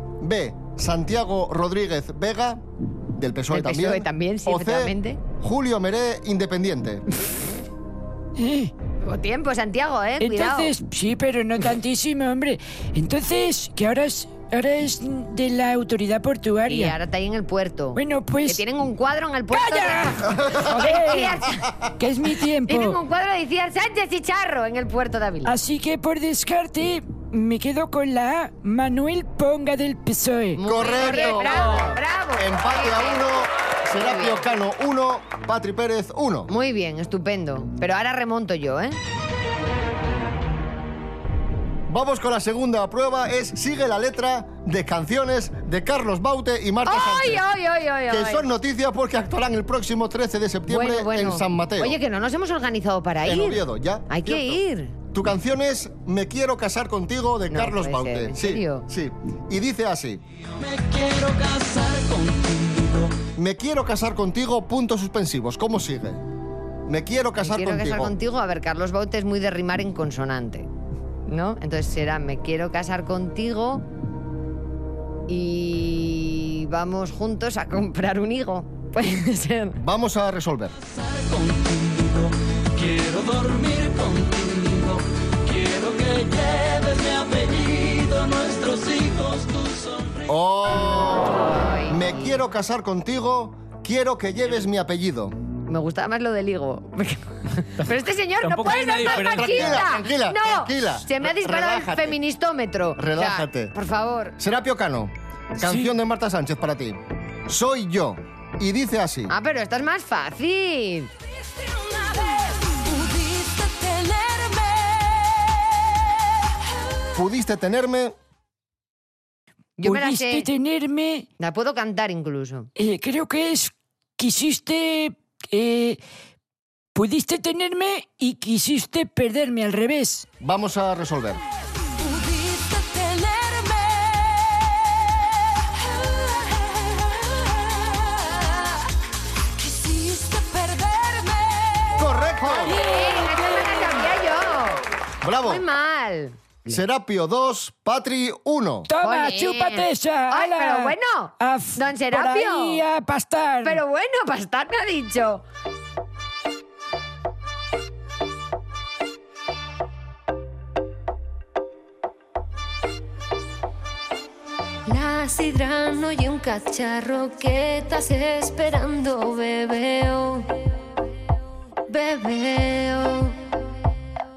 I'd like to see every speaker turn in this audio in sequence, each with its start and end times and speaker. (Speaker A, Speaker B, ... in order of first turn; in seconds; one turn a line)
Speaker A: 0.2-7.0
Speaker B: 3.5-5.2
Speaker C: 8.4-8.7
Speaker B: 9.0-10.7
Speaker C: 10.2-17.0
Speaker B: 16.7-21.7
Speaker C: 17.9-18.6
Speaker C: 19.5-21.4
Speaker A: 20.3-20.8
Speaker C: 22.0-23.0
Speaker B: 22.7-25.5
Speaker C: 25.4-30.6
Speaker B: 30.6-33.3
Speaker A: 30.6-36.5
Speaker B: 34.0-34.4
Speaker B: 36.5-39.0
Speaker A: 41.9-47.4
Speaker B: 46.9-48.5
Speaker A: 48.1-52.0
Speaker B: 50.7-55.0
Speaker A: 53.2-54.6
Speaker A: 55.1-60.2
Speaker B: 57.5-58.8
Speaker D: 60.6-63.1
Speaker A: 63.4-66.2
Speaker A: 66.9-68.1
Speaker B: 67.4-70.7
Speaker B: 71.3-73.8
Speaker B: 75.3-79.8
Speaker A: 79.8-80.8
Speaker D: 80.9-90.3
Speaker A: 90.3-95.3
Speaker B: 91.5-92.4
Speaker B: 95.7-104.4
Speaker D: 98.4-99.8
Speaker A: 98.9-102.2
Speaker A: 103.0-103.7
Speaker A: 104.4-109.3
Speaker B: 109.3-111.1
Speaker C: 111.6-116.2
Speaker A: 117.2-118.2
Speaker B: 119.8-120.5
Speaker C: 119.8-121.3
Speaker B: 121.4-122.7
Speaker C: 122.8-126.0
Speaker C: 127.0-130.3
Speaker A: 130.4-131.4
Speaker C: 132.0-138.8
Speaker C: 139.6-142.1
Speaker A: 142.0-142.8
Speaker B: 142.4-144.8
Speaker C: 142.7-144.1
Speaker A: 145.2-145.6
Speaker B: 145.4-146.8
Speaker A: 146.7-148.9
Speaker C: 148.9-153.8
Speaker B: 149.0-152.8
Speaker B: 153.6-155.4
Speaker E: 164.9-170.5
Speaker E: 171.9-173.4